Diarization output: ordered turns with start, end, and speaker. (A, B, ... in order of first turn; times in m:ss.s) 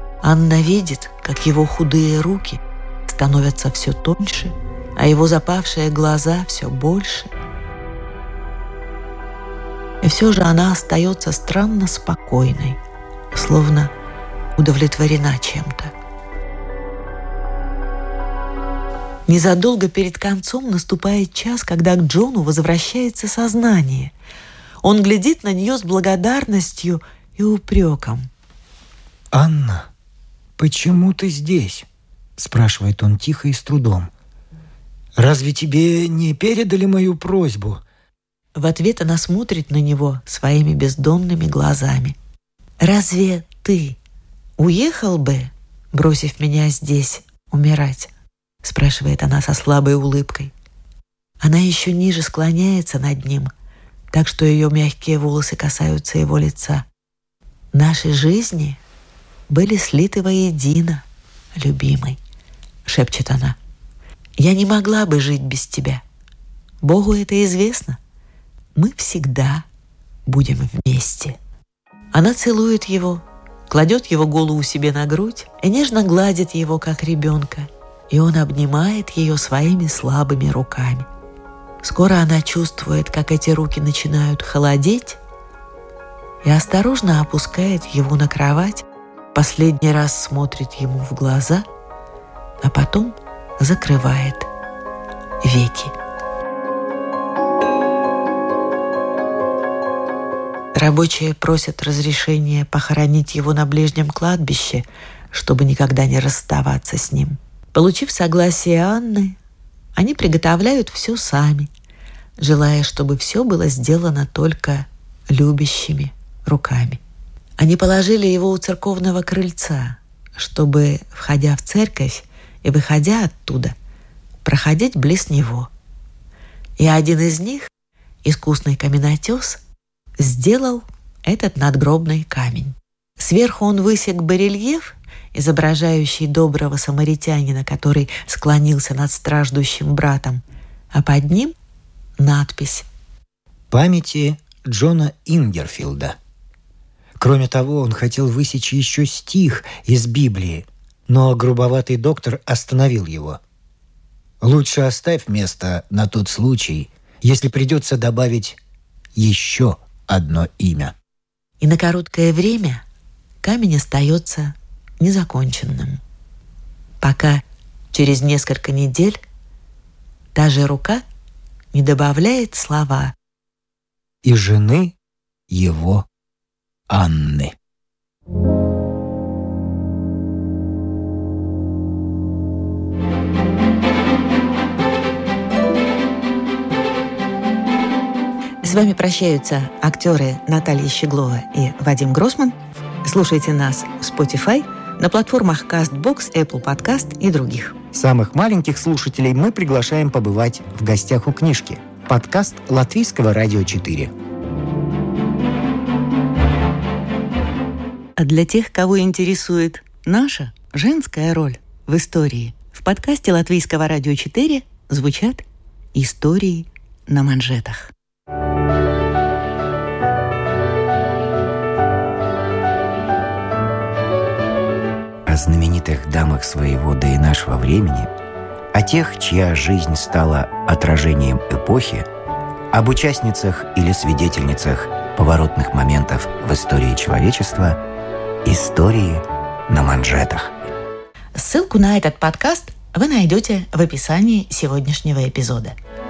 0:00.2-0:07.3 A
0:10.0-0:12.8 A
0:13.3-0:13.9 A
0:14.6-0:15.9 A
0:19.3-0:24.1 A
0:24.8-0:28.3 A
0:29.3-0:29.9 B
0:30.6-0:31.9 B
0:32.4-0:34.1 B
0:35.2-0:37.8 B
0:38.6-0:42.2 A
0:42.8-0:44.0 A
0:44.6-0:48.1 A
0:48.6-0:50.5 A
0:51.4-0:53.5 A
0:54.1-0:56.9 A
0:57.7-0:58.8 A
0:59.5-1:02.2 A
1:02.9-1:03.6 A
1:04.4-1:06.0 A
1:06.8-1:08.0 A
1:08.8-1:09.6 A
1:10.3-1:11.4 A
1:12.1-1:21.1 A
1:21.8-1:25.2 A
1:26.4-1:31.6 A
1:32.6-1:34.5 A
1:35.4-1:35.9 A
1:40.8-1:49.4 A
1:50.0-1:51.7 A
1:52.4-1:57.0 A
1:57.6-2:03.8 A
2:04.4-2:05.7 A
2:06.8-2:07.7 A
2:08.2-2:09.6 A
2:10.2-2:21.6 A
2:22.2-2:22.9 A
2:23.7-2:26.2 B
2:27.2-2:33.4 B
2:34.4-2:38.6 B
2:39.2-2:41.0 B
2:41.6-2:42.8 A
2:43.4-2:46.0 A
2:47.0-2:49.2 A
2:50.3-2:51.0 A
2:51.7-2:53.1 A
2:54.2-2:55.0 B
2:55.5-2:56.1 B
2:56.9-2:57.6 B
3:08.6-3:17.8 A
3:17.9-3:24.1 B
3:28.2-3:37.9 A
3:45.2-3:48.1 B
3:48.7-3:52.1 B
3:52.7-3:57.8 B
3:58.4-4:00.6 B
4:01.4-4:05.8 A